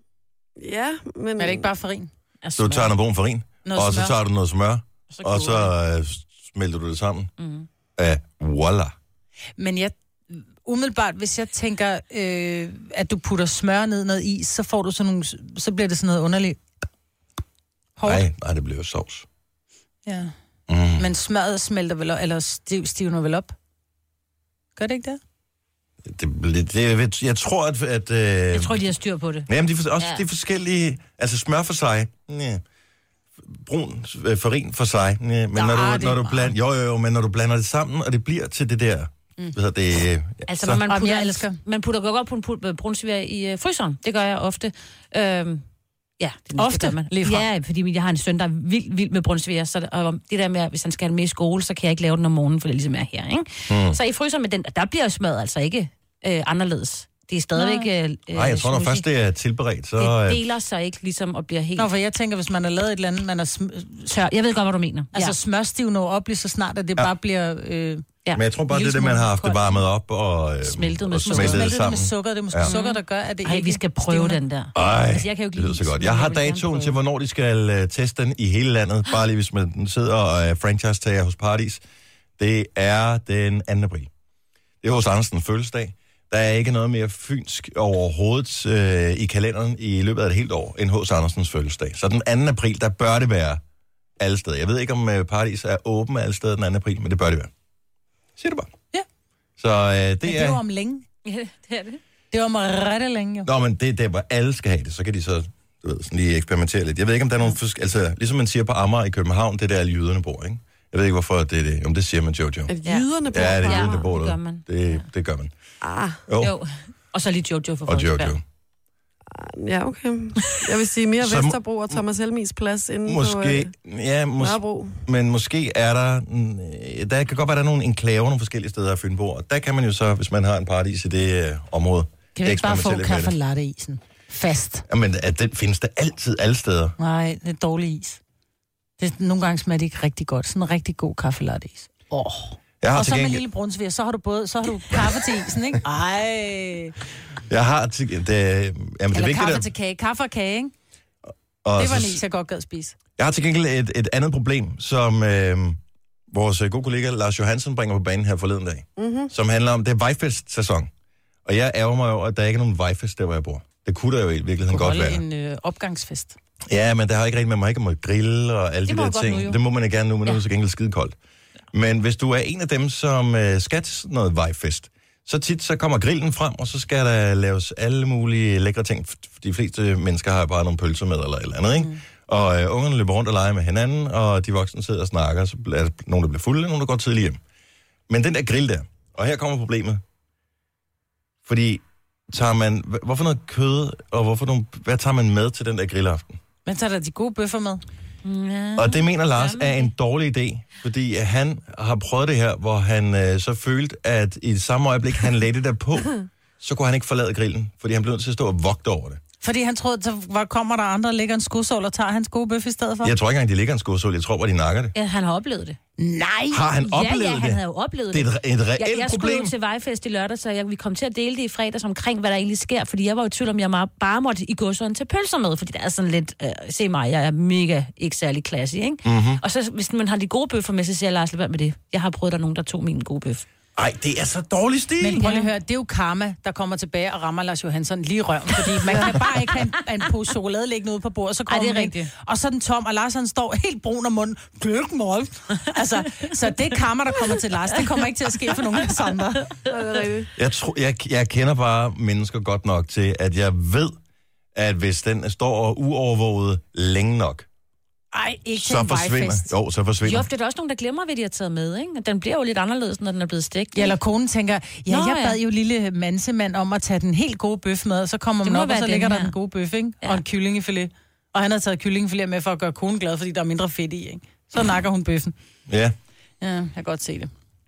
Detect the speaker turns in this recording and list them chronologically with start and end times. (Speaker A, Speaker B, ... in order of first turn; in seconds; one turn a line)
Speaker A: 0.6-1.7
Speaker B: 1.4-2.1
Speaker C: 2.4-2.9
Speaker D: 2.5-7.3
Speaker B: 3.6-4.2
Speaker B: 5.2-5.7
Speaker C: 7.4-7.7
Speaker D: 8.0-8.9
Speaker B: 9.6-16.6
Speaker B: 18.0-18.2
Speaker D: 18.0-19.2
Speaker B: 20.1-20.3
Speaker D: 20.7-21.1
Speaker B: 21.0-23.5
Speaker B: 24.8-25.2
Speaker D: 26.0-28.8
Speaker C: 28.5-29.5
Speaker D: 29.5-32.6
Speaker C: 30.0-30.2
Speaker D: 33.4-40.8
Speaker B: 35.5-36.5
Speaker C: 40.5-45.6
Speaker B: 40.9-41.6
Speaker C: 46.2-59.0
Speaker B: 46.5-47.5
Speaker D: 53.7-54.0
Speaker B: 57.5-57.9
Speaker D: 58.3-60.4
Speaker C: 60.0-61.9
Speaker B: 61.8-64.0
Speaker C: 64.1-65.3
Speaker B: 65.1-68.0
Speaker D: 68.3-72.7
Speaker B: 68.7-69.8
Speaker C: 70.6-71.7
Speaker B: 71.2-74.4
Speaker C: 72.6-76.9
Speaker D: 74.7-81.8
Speaker D: 82.4-84.1
Speaker D: 84.8-93.6
Speaker D: 94.2-97.5
Speaker D: 98.4-98.7
Speaker D: 99.6-100.6
Speaker B: 100.2-101.0
Speaker C: 101.2-102.0
Speaker B: 102.3-103.5
Speaker D: 103.4-112.7
Speaker A: 112.7-114.1
Speaker D: 113.3-115.5
Speaker C: 113.6-115.0
Speaker A: 115.8-116.2
Speaker D: 116.3-116.5
Speaker C: 116.4-118.3
Speaker D: 117.9-118.4
Speaker A: 119.3-123.7
Speaker D: 121.2-122.0
Speaker D: 123.0-133.3
Speaker A: 124.4-125.0
Speaker B: 132.3-134.8
Speaker D: 134.9-136.9
Speaker B: 137.0-138.2
Speaker B: 139.0-146.9
Speaker D: 142.8-143.4
Speaker D: 147.5-149.7
Speaker B: 149.1-150.7
Speaker D: 151.6-152.2
Speaker B: 151.8-152.9
Speaker D: 153.2-160.9
Speaker A: 159.0-159.3
Speaker D: 161.4-165.2
Speaker B: 164.7-166.4
Speaker D: 166.7-171.1
Speaker C: 168.9-169.6
Speaker D: 171.7-187.4
Speaker D: 188.1-190.0
Speaker D: 191.4-196.4
Speaker B: 196.7-197.8
Speaker C: 198.2-199.9
Speaker D: 198.8-209.2
Speaker B: 209.4-213.1
Speaker D: 213.0-214.9
Speaker C: 214.9-215.8
Speaker B: 216.0-216.6
Speaker D: 216.5-217.6
Speaker C: 216.8-233.4
Speaker D: 218.1-219.5
Speaker D: 229.0-229.4
Speaker D: 233.8-235.2
Speaker B: 235.0-249.5
Speaker C: 235.2-235.5
Speaker C: 241.5-242.1
Speaker A: 249.7-250.3
Speaker D: 250.3-253.9
Speaker D: 254.5-257.5
Speaker B: 258.1-259.5
Speaker D: 258.6-260.3
Speaker C: 260.0-263.9
Speaker B: 263.7-275.3
Speaker C: 264.9-265.4
Speaker C: 268.4-269.3
Speaker D: 275.7-275.9
Speaker B: 276.4-277.3